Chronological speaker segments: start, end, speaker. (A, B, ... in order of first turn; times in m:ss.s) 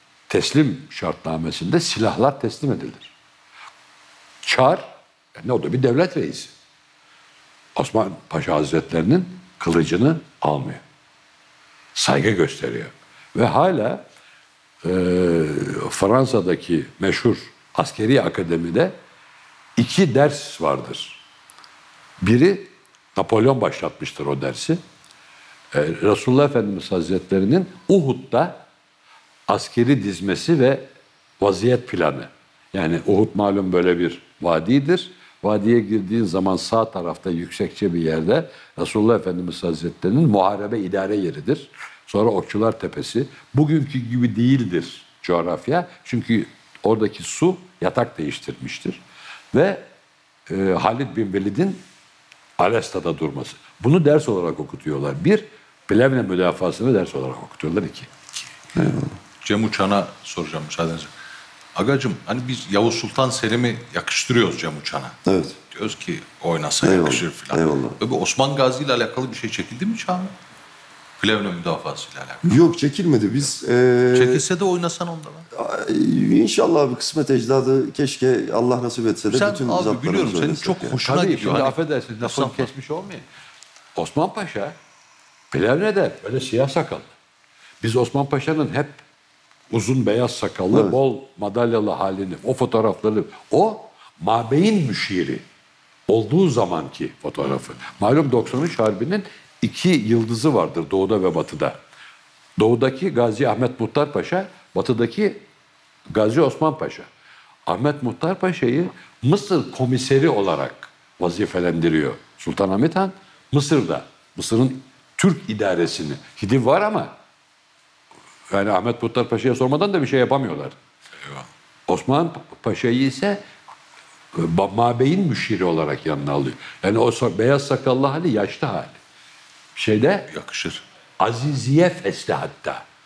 0:00.3-0:03.1 A
0:04.4-0:06.5 A
0:07.8-0:10.8 A
0:11.9-0:14.0 A
0:14.8-0:19.0 A
0:19.8-0:21.2 A
0:22.2-0:24.8 A
0:25.7-0:28.6 A
0:29.5-0:30.9 A
0:31.4-0:49.0 A
0:49.5-0:49.9 A
0:50.5-0:51.8 A
0:52.6-0:58.1 A
0:58.8-0:59.1 B
0:59.4-1:01.1 C
1:01.7-1:05.2 C
1:05.2-1:05.6 B
1:05.7-1:10.3 C
1:06.8-1:08.0 B
1:11.2-1:12.6 C
1:12.4-1:14.4 B
1:14.1-1:15.5 C
1:15.5-1:21.0 B
1:19.3-1:22.7 C
1:21.0-1:23.2 A
1:24.0-1:24.7 A
1:25.5-1:27.1 A
1:27.8-1:29.0 A
1:29.7-1:35.4 A
1:36.1-1:41.8 A
1:42.6-1:45.4 A
1:46.1-1:47.1 A
1:47.7-1:57.1 A
1:58.5-2:00.8 A
2:01.9-2:03.4 A
2:04.3-2:09.0 A
2:09.8-2:10.3 A
2:10.3-2:10.8 C
2:11.2-2:12.8 A